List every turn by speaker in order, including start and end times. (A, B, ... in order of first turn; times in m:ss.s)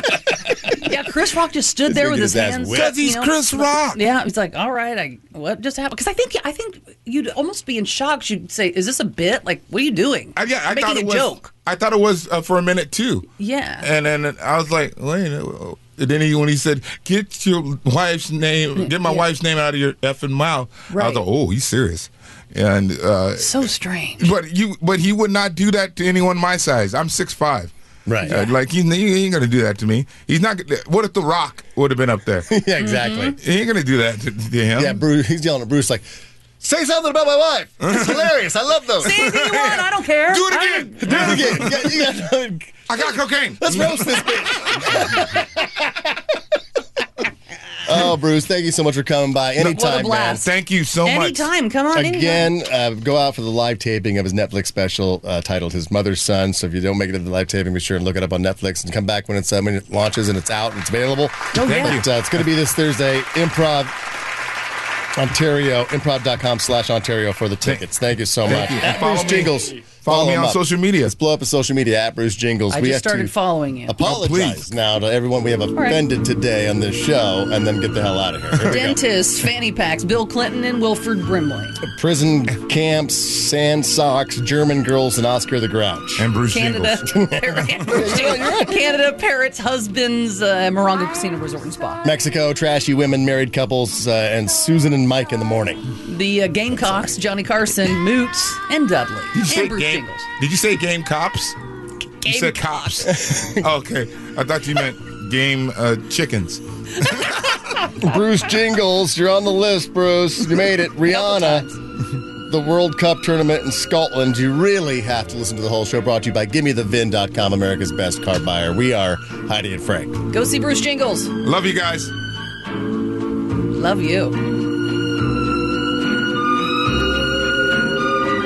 0:00.7-0:11.5 A
0:01.9-0:02.9 B
0:02.7-0:04.0 C
0:10.4-0:13.3 C
0:13.4-0:13.9 A
0:13.8-0:23.7 C
0:18.8-0:19.2 A
0:20.9-0:21.2 A
0:23.4-0:24.3 A
0:24.2-0:27.7 C
0:28.1-0:28.4 B
0:28.3-0:32.5 C
0:32.5-0:33.4 B
0:32.8-0:33.4 A
0:33.4-0:35.0 C
0:34.8-0:36.0 B
0:36.6-0:39.2 B
0:37.8-0:38.4 C
0:39.0-0:41.4 A
0:39.1-0:42.0 C
0:41.0-0:46.1 B
0:42.9-0:45.0 C
0:47.9-0:50.4 B
0:49.7-0:50.5 A
0:50.4-0:51.5 C
0:51.0-0:52.5 A
0:51.9-1:03.9 B
1:01.5-1:02.0 A
1:01.6-1:02.1 C
1:05.2-1:13.4 B
1:08.4-1:11.1 C
1:12.7-1:14.0 A
1:13.9-1:19.0 B
1:14.0-1:14.7 C
1:15.7-1:16.0 A
1:18.6-1:21.8 A
1:21.8-1:26.3 B
1:26.2-1:27.0 C
1:26.5-1:32.0 A
1:27.1-1:28.9 B
1:32.0-1:35.8 B
1:36.0-1:40.3 A
1:39.3-1:41.6 C
1:42.2-1:47.4 C
1:42.2-1:43.2 A
1:43.1-1:43.7 B
1:47.9-1:51.7 B
1:51.0-1:51.8 A
1:52.5-2:00.2 B
2:00.3-2:01.4 A
2:01.4-2:02.1 C
2:03.7-2:04.4 A